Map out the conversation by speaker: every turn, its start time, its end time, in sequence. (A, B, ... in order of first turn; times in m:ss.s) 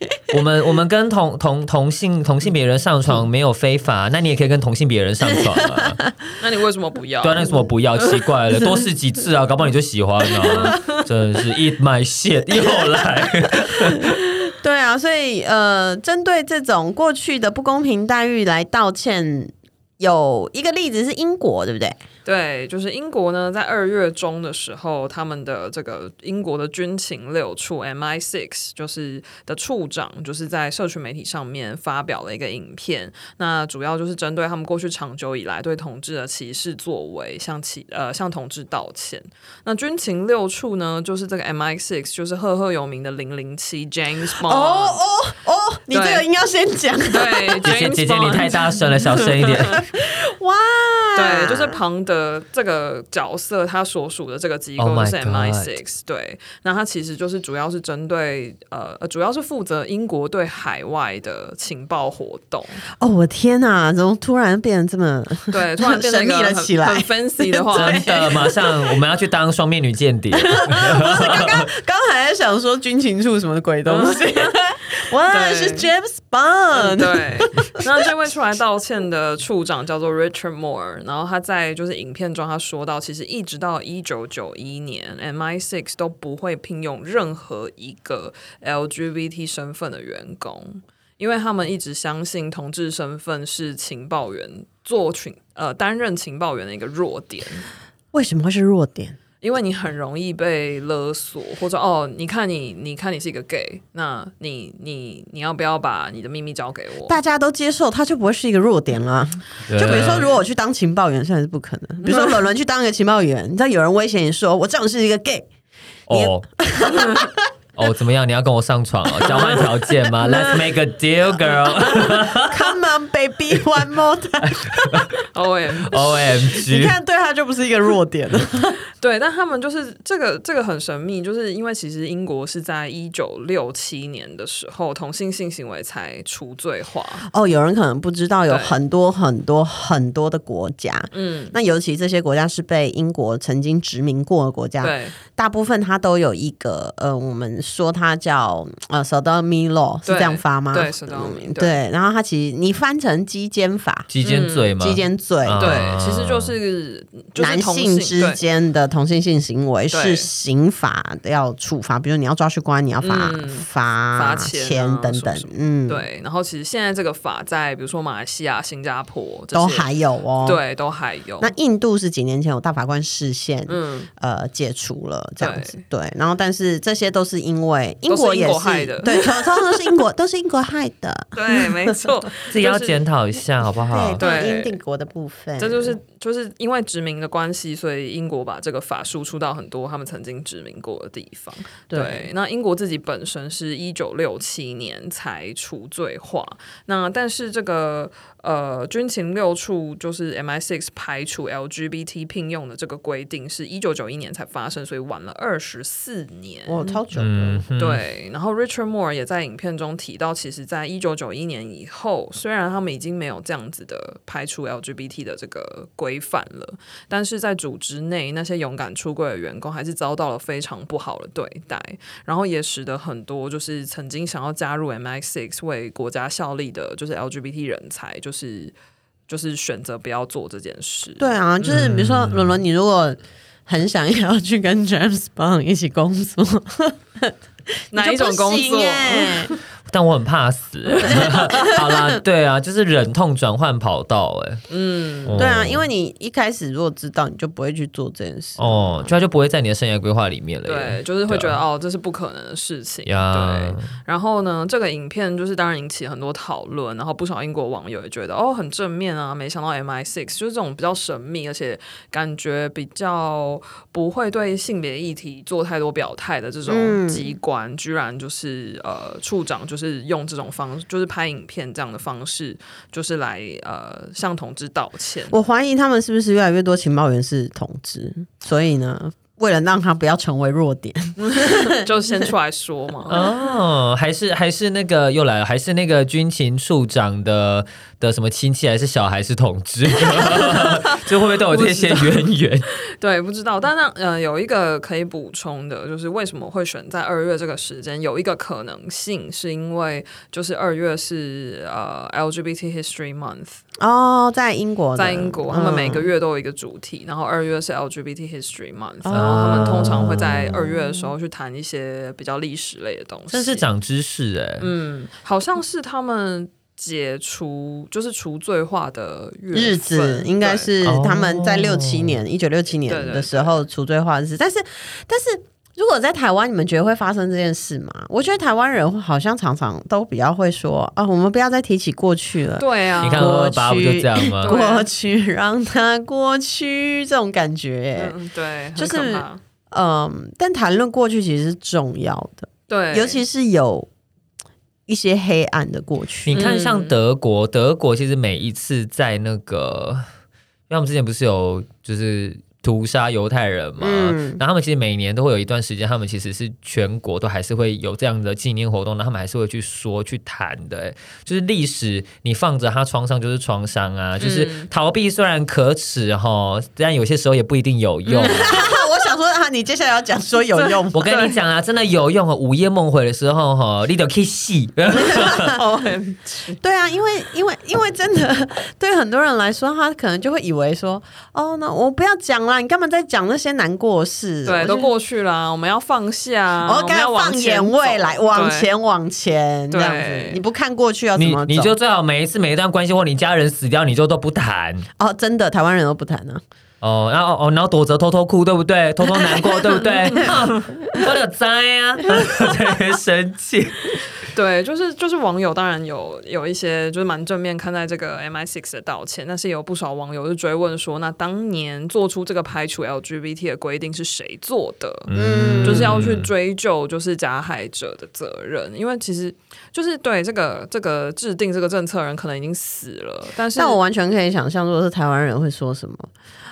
0:00.3-0:06.0 A
0:05.4-0:06.1 B
0:06.4-0:08.1 C
0:07.2-0:14.2 A
0:10.5-0:11.0 C
0:13.7-0:22.0 B
0:22.2-0:45.0 C
0:44.4-0:47.7 B
0:45.9-0:46.2 C
0:47.1-0:49.8 C
0:47.6-0:49.8 A
0:49.2-0:51.8 B
0:51.1-1:02.8 C
0:54.8-0:55.7 A
1:03.0-1:08.7 B
1:05.5-1:08.3 C
1:07.7-1:11.7 A
1:10.5-1:17.8 B
1:13.8-1:14.2 C
1:15.3-1:15.9 C
1:16.7-1:37.6 C
1:38.1-1:39.2 B
1:39.4-1:47.2 C
1:47.1-1:55.5 B
1:49.7-1:50.3 A
1:49.8-1:50.4 C
1:52.0-1:52.3 C
1:56.1-1:56.4 A
1:56.1-1:57.4 B
1:57.8-2:02.7 A
1:59.2-1:59.6 B
1:59.3-1:59.6 C
2:00.2-2:00.6 B
2:01.9-2:05.1 B
2:04.4-2:05.2 A
2:05.3-2:06.4 C
2:05.9-2:07.0 A
2:06.5-2:08.8 B
2:09.0-2:17.3 C
2:17.3-2:34.1 B
2:18.5-2:18.8 C
2:21.1-2:21.5 C
2:24.8-2:25.2 C
2:30.0-2:31.8 C
2:34.1-2:36.6 A
2:34.2-2:34.7 C
2:34.8-2:35.9 B
2:35.6-2:38.4 C
2:37.4-2:46.0 B
2:39.9-2:40.3 C
2:43.0-2:49.9 C
2:49.5-2:50.6 B
2:50.4-2:51.5 C
2:51.4-3:02.1 B
2:53.7-2:54.1 C
2:55.4-2:55.8 C
2:58.1-2:59.8 C
3:01.3-3:03.0 C
3:02.5-3:04.2 A
3:03.9-3:06.0 B
3:04.2-3:04.8 C
3:05.6-3:27.0 C
3:11.9-3:12.3 B
3:26.7-3:27.6 B
3:27.1-3:28.0 A
3:27.8-3:48.7 C
3:49.3-3:51.3 C
3:51.2-3:57.3 B
3:51.6-3:52.6 A
3:57.9-3:59.5 B
3:57.9-3:59.6 C
3:59.9-4:04.6 A
4:01.0-4:02.2 B
4:04.7-4:05.4 C
4:05.2-4:05.8 A
4:05.4-4:09.1 B
4:08.6-4:11.6 A
4:10.6-4:35.3 C
4:13.0-4:13.9 A
4:26.7-4:27.3 B
4:35.3-4:41.8 B
4:41.2-4:43.2 C
4:43.1-4:52.6 A
4:50.1-4:52.3 C
4:52.9-5:03.6 C
5:03.8-5:06.1 B
5:05.0-5:13.6 C
5:09.0-5:10.2 B
5:09.1-5:10.5 A
5:13.3-5:14.7 A
5:14.6-5:20.7 C
5:19.5-5:38.1 B
5:20.8-5:22.2 A
5:22.8-5:23.6 C
5:32.6-5:33.4 C
5:33.0-5:34.5 A
5:34.4-5:34.9 C
5:38.0-5:39.4 C
5:38.8-5:43.9 B
5:42.7-5:43.2 C
5:44.9-5:46.4 B
5:46.2-5:50.0 A
5:46.3-5:46.9 C
5:50.7-6:08.7 A
5:53.8-5:54.4 B
6:04.2-6:04.7 C
6:08.1-6:08.8 C
6:08.2-6:11.2 B
6:10.6-6:11.3 C
6:10.9-6:15.5 A
6:14.9-6:15.9 B
6:15.3-6:16.6 C
6:16.6-6:24.9 B
6:24.4-6:28.7 C
6:26.6-6:31.7 B
6:29.7-6:30.4 C
6:31.2-6:34.9 A
6:35.0-6:36.4 B
6:36.8-6:44.0 A
6:39.1-6:40.4 B
6:44.3-7:03.8 C
6:55.1-6:56.3 A
6:55.1-6:56.0 B
7:03.6-7:06.1 B